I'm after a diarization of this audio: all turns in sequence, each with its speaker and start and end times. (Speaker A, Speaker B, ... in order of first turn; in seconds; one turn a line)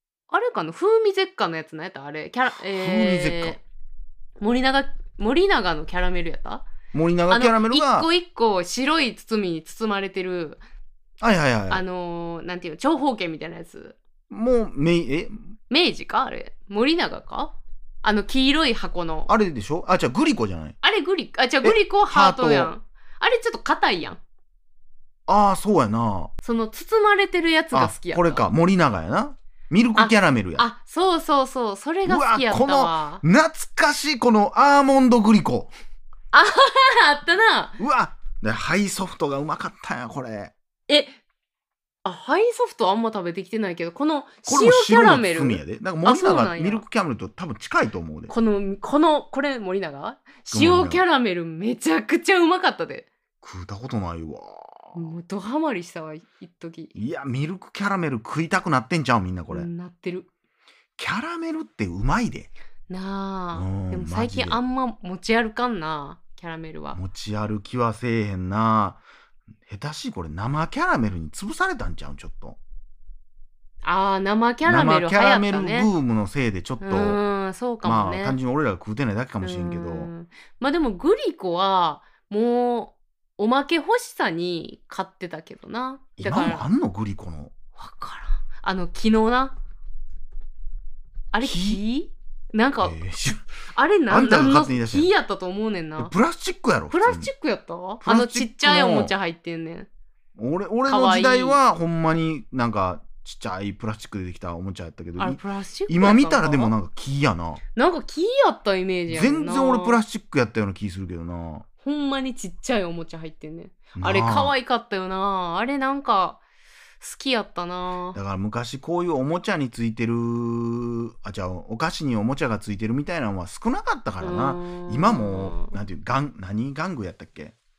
Speaker A: 0.3-3.6
Speaker B: 2.6-3.6
Speaker A: 4.4-6.7
Speaker B: 6.9-8.1
Speaker A: 7.3-10.6
Speaker B: 11.2-11.8
Speaker A: 11.7-13.9
Speaker B: 14.3-15.5
Speaker A: 15.7-19.3
Speaker B: 19.3-20.8
Speaker A: 20.8-24.2
Speaker B: 21.6-22.7
Speaker B: 25.3-26.3
Speaker A: 26.4-28.5
Speaker B: 27.7-30.6
Speaker A: 30.0-33.2
Speaker B: 32.0-35.7
Speaker A: 36.3-37.8
Speaker B: 37.8-40.5
Speaker A: 40.9-41.2
Speaker A: 42.0-46.8
Speaker B: 44.5-48.3
Speaker A: 48.3-53.1
Speaker B: 50.5-51.0
Speaker B: 53.4-55.0
Speaker A: 54.9-56.9
Speaker B: 56.9-59.7
Speaker A: 59.5-60.3
Speaker B: 61.0-62.5
Speaker A: 62.9-67.0
Speaker B: 63.5-64.6
Speaker B: 66.9-69.0
Speaker B: 69.7-72.6
Speaker A: 73.8-75.9
Speaker B: 74.6-77.2
Speaker A: 76.8-78.4
Speaker B: 77.8-80.1
Speaker A: 79.4-86.7
Speaker B: 86.2-87.5
Speaker A: 87.8-89.5
Speaker A: 91.3-93.0
Speaker B: 91.4-91.8
Speaker B: 92.8-93.4
Speaker A: 93.7-96.1
Speaker B: 94.1-95.1
Speaker B: 96.0-97.3
Speaker A: 96.9-99.9
Speaker B: 98.0-99.1
Speaker B: 100.3-107.6
Speaker A: 100.9-101.6
Speaker A: 105.2-106.8
Speaker A: 107.7-110.0
Speaker B: 109.1-111.6
Speaker A: 111.8-116.4
Speaker B: 114.0-114.5
Speaker A: 117.0-118.2
Speaker B: 118.1-127.5
Speaker A: 124.2-125.7